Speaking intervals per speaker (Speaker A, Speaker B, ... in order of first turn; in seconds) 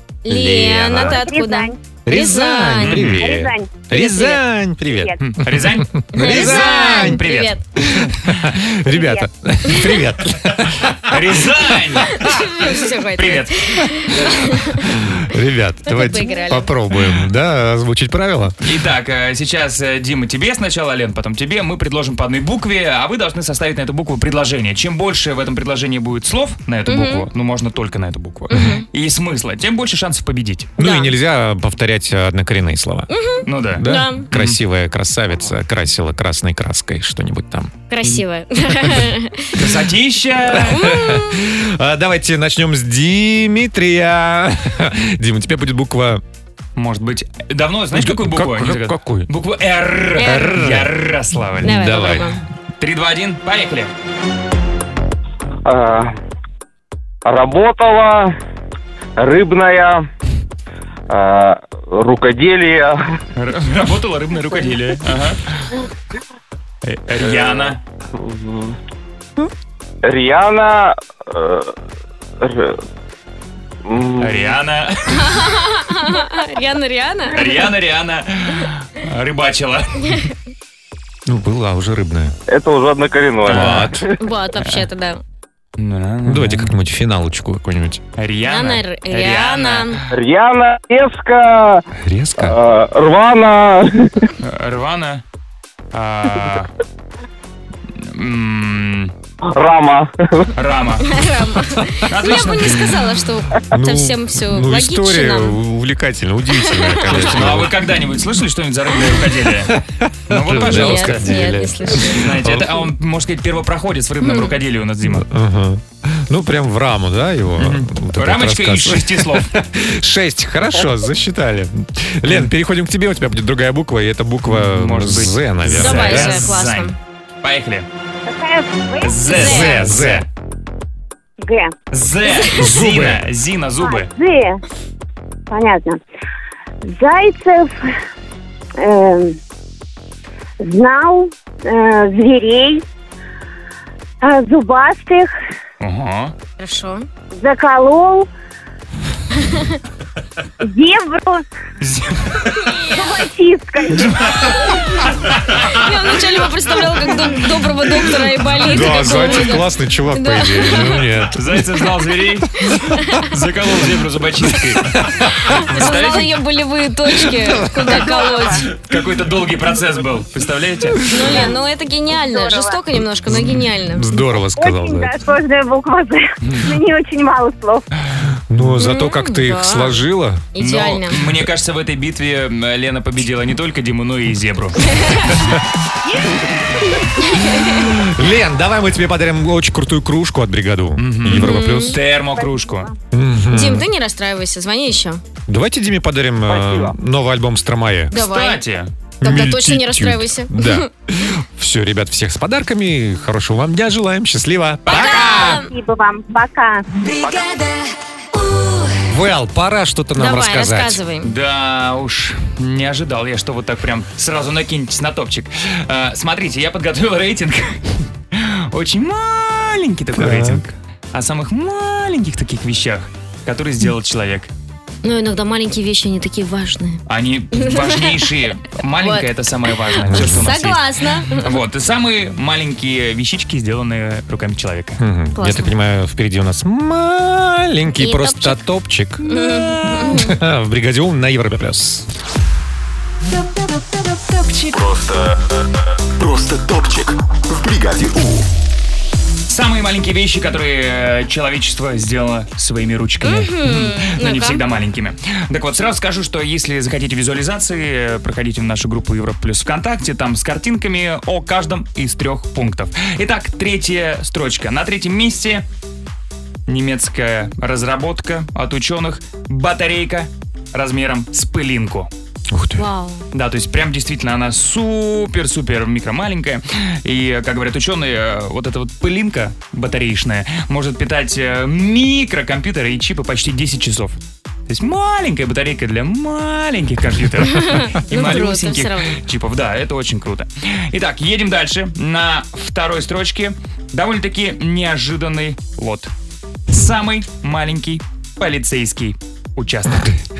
Speaker A: 0.3-3.0, 3.9-4.4, 6.1-7.6, 12.1-14.8, 15.9-16.7, 26.9-27.3, 28.5-28.9, 30.8-31.1, 33.1-34.3, 37.9-39.5, 40.7-41.4, 50.2-50.5, 51.6-52.4, 75.2-77.6, 84.2-85.2, 88.5-90.0, 101.0-105.6, 106.7-107.1, 110.6-112.2, 114.2-114.5, 125.8-126.9, 129.3-129.8, 146.6-147.1, 155.7-161.1, 162.7-163.2, 165.5-168.7, 171.0-174.1, 178.8-180.0, 180.6-181.2, 187.2-187.8, 191.3-192.0, 193.5-195.2, 198.1-198.6, 199.2-200.9, 204.9-205.7, 210.2-211.3, 225.0-227.0, 227.6-228.1, 229.0-229.3, 230.0-231.5, 235.4-235.7, 238.0-238.6, 239.2-240.3, 253.2-254.6, 272.8-273.2, 287.5-289.2
Speaker B: 0.3-1.2, 2.1-7.2, 7.8-11.2, 14.9-18.6, 30.8-33.1, 33.8-37.7, 40.5-46.2, 47.9-49.3, 50.2-50.9, 51.6-52.3, 81.3-82.3, 83.5-84.0, 86.2-88.0, 92.0-92.6, 103.7-107.8, 109.7-112.8, 115.0-126.5, 129.3-130.3, 132.6-133.2, 158.6-161.5, 167.3-168.1, 173.3-175.1, 178.5-180.4, 187.8-192.0, 193.1-193.9, 195.5-198.1, 199.2-205.6, 209.1-211.0, 220.2-220.6, 230.1-230.5, 235.0-242.1, 272.5-272.8
Speaker C: 1.0-1.8, 3.2-3.9, 4.9-5.1, 8.9-9.2, 128.3-129.6, 131.4-131.7, 133.8-134.6, 135.5-136.0, 136.8-137.7, 138.8-139.4, 140.6-142.8, 144.2-145.3, 147.3-148.3, 150.6-151.4, 152.9-154.2, 168.2-168.5, 172.1-172.8, 174.5-177.8, 192.4-192.7, 205.7-206.8
Speaker D: 2.8-3.3, 5.2-8.4, 11.0-12.3, 13.2-13.9, 18.6-30.7, 33.5-34.6, 39.5-40.8, 46.8-52.2, 52.8-53.9, 63.4-65.7, 66.8-67.8, 74.2-75.3, 77.3-80.3, 83.5-83.9, 85.8-86.7, 88.2-90.0, 94.4-95.2, 95.9-96.7, 98.0-99.1, 100.5-101.1, 102.1-103.0, 107.1-109.8, 110.3-111.4, 111.9-115.2, 117.6-119.5, 124.5-127.9, 129.0-130.3, 131.9-134.1, 145.8-146.3, 151.8-152.4, 154.0-154.3, 161.3-166.4, 168.7-171.3, 176.4-176.7, 180.6-185.6, 191.0-192.9, 198.2-198.9, 211.2-224.5, 227.1-235.0, 249.5-265.6, 266.7-272.1, 273.3-296.1, 296.7-300.2
Speaker E: 55.6-56.1, 57.2-58.3, 59.2-60.0, 61.1-63.0, 67.3-68.8, 70.0-71.7, 72.4-72.8, 73.8-74.5, 82.5-84.0, 90.1-91.8, 92.4-94.0, 99.5-100.4
Speaker F: 244.7-245.2, 246.2-248.5